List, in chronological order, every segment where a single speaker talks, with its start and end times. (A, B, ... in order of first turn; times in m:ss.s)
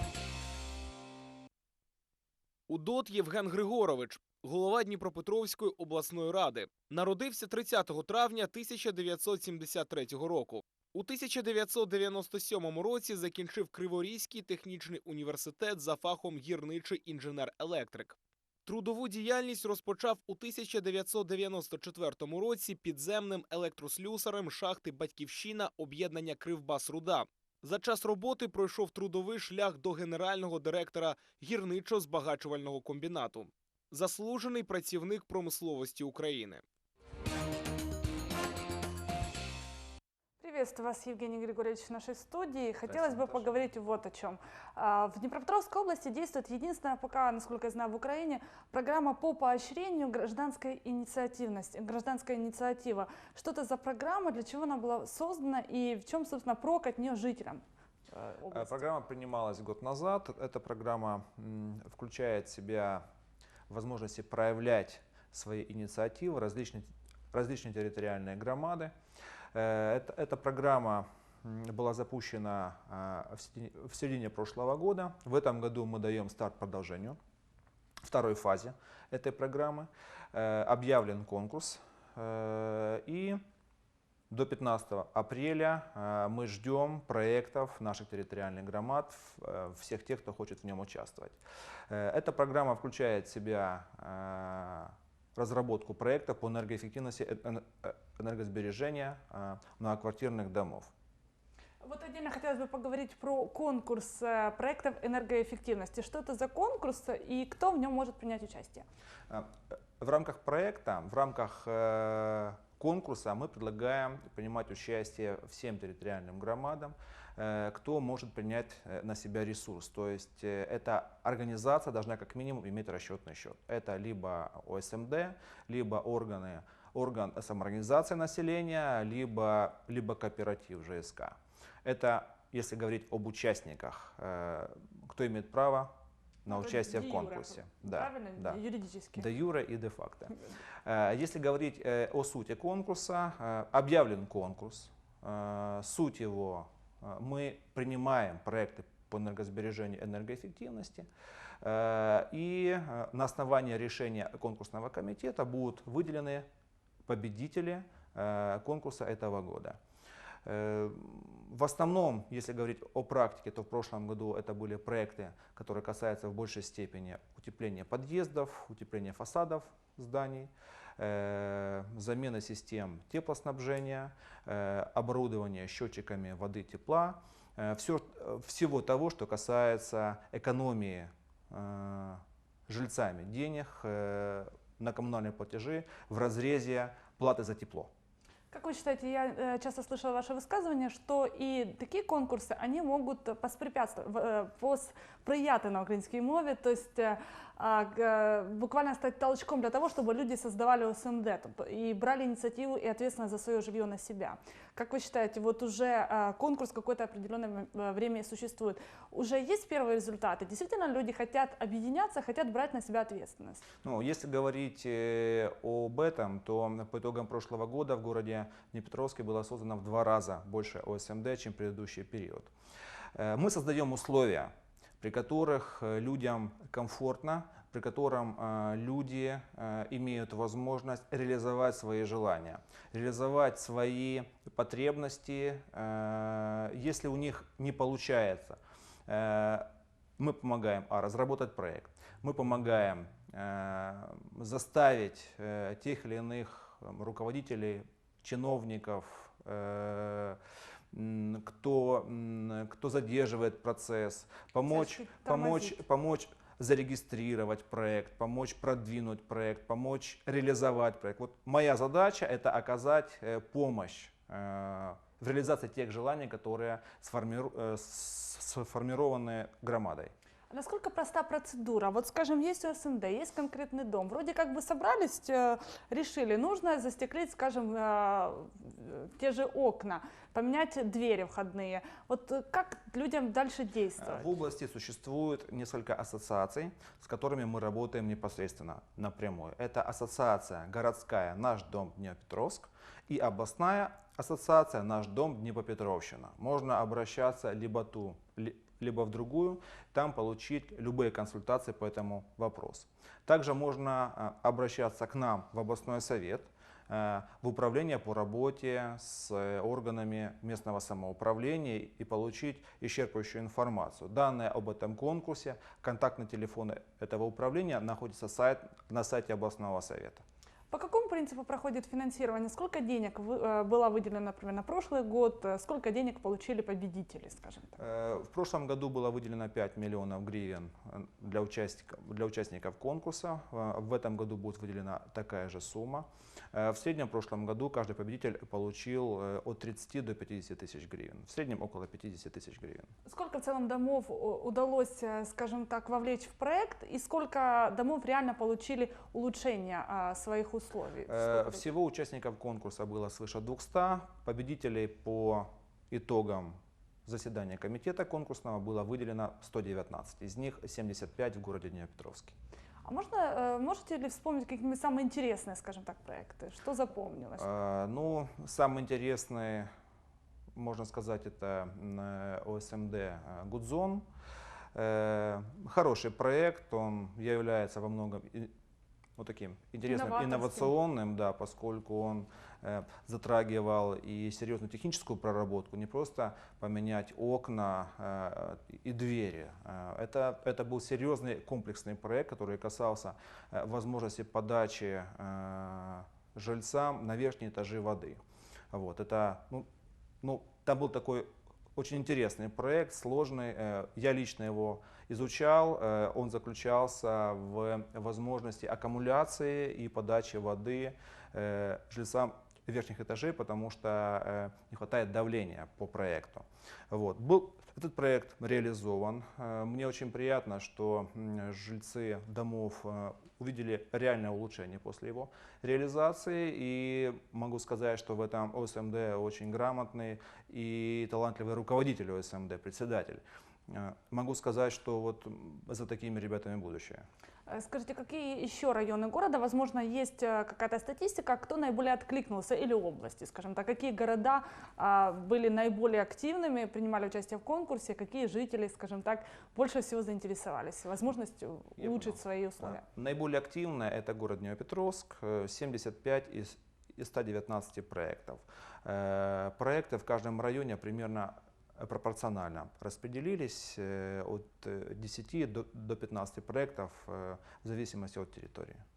0:02.7-0:36.6 A
0:40.4-0:58.8 B
0:43.0-0:43.4 A
0:58.5-1:03.0 C
1:03.7-1:08.9 C
1:09.5-1:17.2 C
1:18.0-1:23.4 C
1:24.3-1:40.9 C
1:41.8-1:48.8 B
1:49.3-2:15.9 C
2:16.4-2:18.6 C
2:16.5-2:19.3 B
2:19.2-2:20.3 C
2:20.8-2:31.1 C
2:31.6-2:36.5 C
2:37.0-2:39.8 C
2:40.4-3:07.9 C
3:08.5-3:33.6 B
3:33.8-3:42.5 C
3:43.1-4:10.4 C
4:10.9-4:30.1 C
4:14.7-4:15.8 B
4:30.5-4:44.3 B
4:44.0-5:20.2 C
5:20.7-5:27.8 B
5:27.8-5:42.9 C
5:43.0-5:51.6 B
5:51.1-6:02.4 C
6:02.8-6:07.5 B
6:07.4-6:09.7 C
6:10.5-6:14.0 C
6:14.7-6:18.5 C
6:19.2-6:38.2 C
6:19.8-6:20.7 B
6:38.7-6:39.7 C
6:40.2-7:17.0 C
7:17.5-7:32.8 B
7:31.8-7:48.8 C